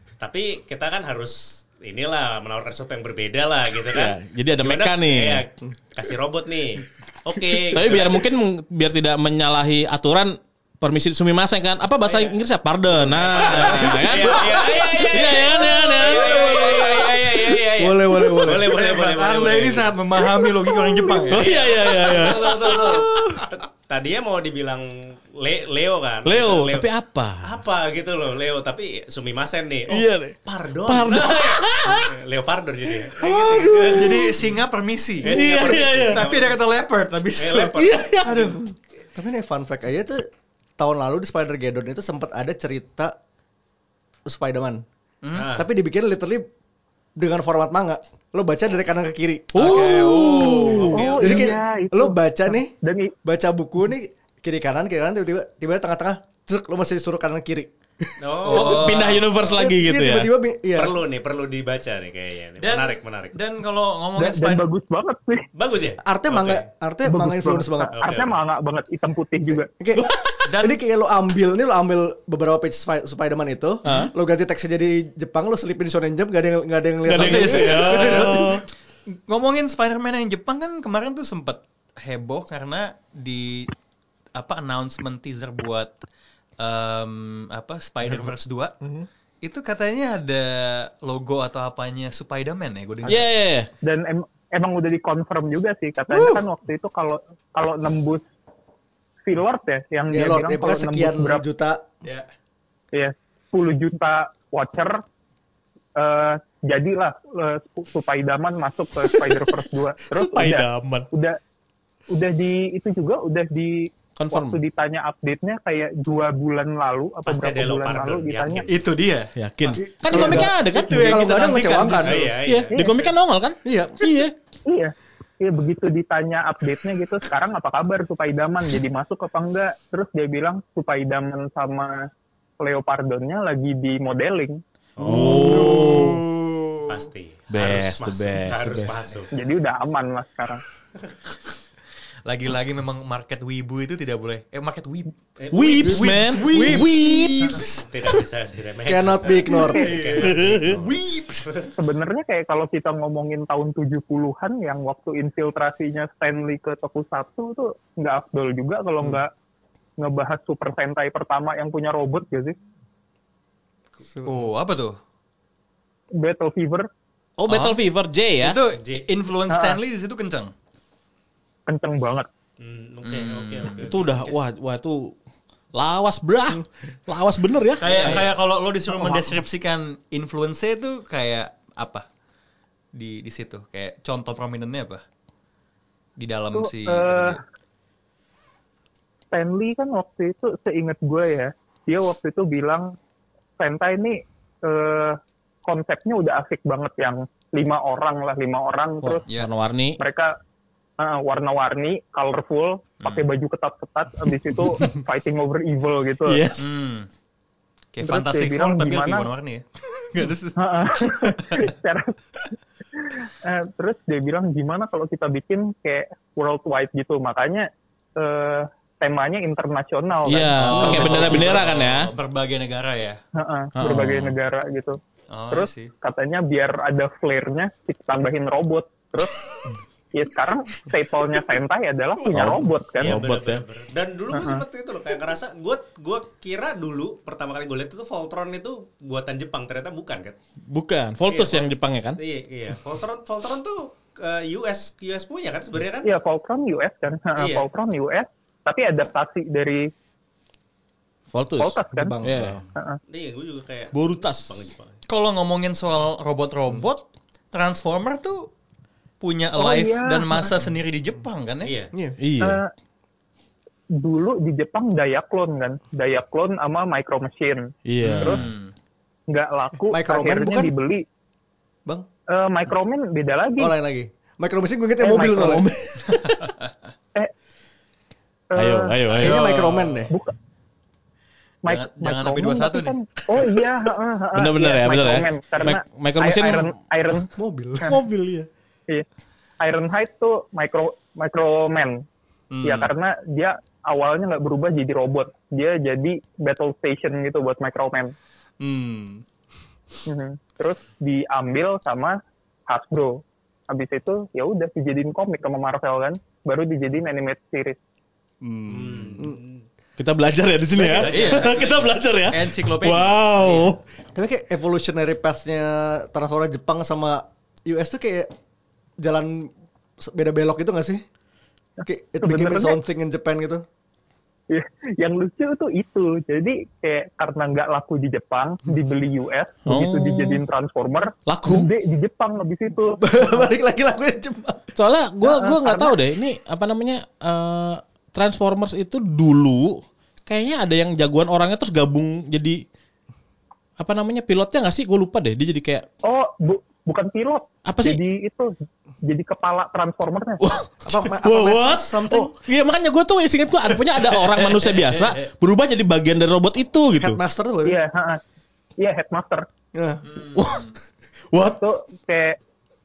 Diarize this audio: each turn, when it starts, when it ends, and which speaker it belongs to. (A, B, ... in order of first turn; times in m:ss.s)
0:00.2-0:08.3 A
0:03.9-0:05.4 B
0:07.6-0:16.9 B
0:12.0-0:12.4 A
0:13.0-0:19.9 A
0:13.4-0:17.6 C
0:17.8-0:18.7 D
0:18.4-0:21.6 C
0:21.3-0:23.5 B
0:21.3-0:26.9 A
0:26.2-0:27.6 B
0:27.4-0:34.5 A
0:29.9-0:32.2 B
0:33.1-0:34.2 B
0:33.9-0:37.8 C
0:35.2-0:36.6 A
0:35.2-0:36.2 B
0:37.4-0:38.6 A
0:37.8-0:38.6 B
0:39.2-0:40.2 D
0:40.8-0:43.2 D
0:44.3-0:44.8 D
0:45.2-0:45.5 C
0:45.3-0:45.7 A
0:45.5-0:46.5 D
0:47.2-0:49.8 D
0:49.6-0:50.8 B
0:49.6-0:51.1 C
0:50.4-0:53.1 E
0:50.7-0:51.5 A
0:51.2-0:57.7 D
0:58.2-0:59.3 A
0:58.4-1:01.0 D
0:58.5-1:00.3 B
0:58.5-0:59.0 C
1:00.8-1:03.4 A
1:02.6-1:04.6 C
1:04.2-1:05.5 E
1:05.6-1:06.7 A
1:06.0-1:08.0 D
1:07.1-1:09.7 E
1:08.0-1:08.3 A
1:09.8-1:18.6 D
1:10.5-1:10.8 C
1:13.8-1:14.1 B
1:17.1-1:18.6 B
1:17.2-1:18.5 C
1:19.1-1:23.7 C
1:24.4-1:25.9 C
1:26.6-1:28.8 C
1:29.4-1:33.3 C
1:33.1-1:33.7 B
1:33.8-1:38.2 E
1:36.1-1:36.4 C
1:39.3-1:41.4 E
1:40.1-1:41.9 D
1:42.9-1:45.0 E
1:46.0-1:51.4 E
1:49.0-1:49.5 B
1:50.1-1:51.1 B
1:52.1-1:58.7 E
1:54.2-1:54.6 B
1:57.2-1:58.8 A
1:58.7-2:02.3 C
1:59.4-2:04.3 B
1:59.8-2:02.3 D
2:02.0-2:03.1 A
2:02.7-2:03.0 E
2:03.6-2:04.2 D
2:04.7-2:12.1 E
2:12.6-2:14.6 E
2:15.0-2:16.0 A
2:15.0-2:16.2 B
2:15.0-2:17.0 C
2:16.9-2:19.3 A
2:17.5-2:19.0 B
2:19.3-2:20.6 E
2:22.3-2:27.9 C
2:25.4-2:26.1 A
2:25.5-2:27.7 B
2:26.4-2:27.2 D
2:27.8-2:31.7 A
2:28.8-2:30.0 D
2:29.8-2:31.7 C
2:30.1-2:30.8 B
2:31.8-2:39.3 E
2:40.0-2:42.6 E
2:44.2-2:45.0 C
2:46.2-2:46.9 E
2:47.4-2:48.6 B
2:47.5-2:47.8 C
2:48.4-2:50.5 C
2:48.8-2:49.0 A
2:49.5-2:49.8 E
2:51.7-2:52.3 E
2:52.6-2:54.2 A
2:53.0-2:54.3 C
2:53.8-2:55.1 B
2:55.8-2:58.2 B
2:57.8-3:02.0 C
2:57.8-2:58.3 A
2:58.9-2:59.3 E
3:03.0-3:05.0 C
3:06.2-3:07.4 C
3:06.6-3:07.4 E
3:09.3-3:13.0 E
3:13.6-3:19.2 E
3:19.0-3:20.0 B
3:20.0-3:20.3 E
3:21.0-3:26.5 E
3:26.3-3:26.7 B
3:26.6-3:27.1 C
3:27.9-3:31.7 C
3:28.0-3:29.3 E
3:30.6-3:32.2 E
3:33.0-3:41.4 E
3:40.2-3:42.1 B
3:40.6-3:43.2 C
3:43.4-3:45.0 E
3:43.8-3:44.3 B
3:45.3-3:45.9 C
3:45.5-3:49.4 E
3:50.1-3:53.2 E
3:52.3-3:53.6 B
3:53.0-4:00.4 A
3:54.3-3:54.6 E
4:00.7-4:02.2 B
4:01.3-4:06.1 A
4:06.0-4:09.9 E
4:07.4-4:07.7 A
4:11.3-4:12.6 B
4:11.6-4:12.2 E
4:11.9-4:12.6 D
4:13.1-4:15.0 A
4:13.9-4:14.7 B
4:15.1-4:18.5 C
4:19.2-4:21.7 C
4:19.6-4:20.6 E
4:21.6-4:21.9 A
4:22.2-4:22.6 B
4:22.4-4:22.7 E
4:24.0-4:28.4 E
4:27.9-4:28.5 B
4:28.0-4:28.7 C
4:29.3-4:31.0 E
4:29.9-4:30.7 D
4:32.3-4:33.7 E
4:33.6-4:35.7 D
4:35.0-4:35.6 E
4:35.4-4:36.3 B
4:36.2-4:36.7 C
4:38.6-4:39.2 E
4:38.6-4:39.7 B
4:39.2-4:40.1 D
4:40.1-4:40.3 E
4:41.6-4:47.3 E
4:41.7-4:43.5 C
4:44.4-4:46.7 B
4:47.4-4:48.0 D
4:47.9-4:48.5 B
4:49.6-4:52.0 E
4:52.5-4:52.9 C
4:52.6-4:58.1 E
4:58.6-4:59.2 C
5:00.1-5:07.8 E
5:08.4-5:09.1 B
5:08.7-5:09.6 A
5:10.0-5:13.8 B
5:10.7-5:12.0 A
5:11.0-5:13.6 C
5:14.2-5:18.3 D
5:19.0-5:21.0 D
5:21.8-5:23.6 D
5:22.2-5:22.8 E
5:24.5-5:33.5 E
5:29.7-5:30.4 B
5:31.3-5:31.7 B
5:33.0-5:34.7 D
5:34.8-5:42.6 B
5:35.2-5:36.0 E
5:43.8-5:45.9 B
5:46.0-5:48.5 E
5:47.7-5:48.0 B
5:49.0-5:50.4 E
5:50.4-5:57.2 B
5:50.8-5:52.4 D
5:54.2-5:55.2 C
5:57.0-5:57.8 D
5:57.6-5:58.2 E
5:58.8-5:59.5 E
5:59.7-6:00.0 D
6:00.0-6:00.8 C
6:00.4-6:00.7 B
6:01.3-6:01.6 B
6:01.4-6:02.4 E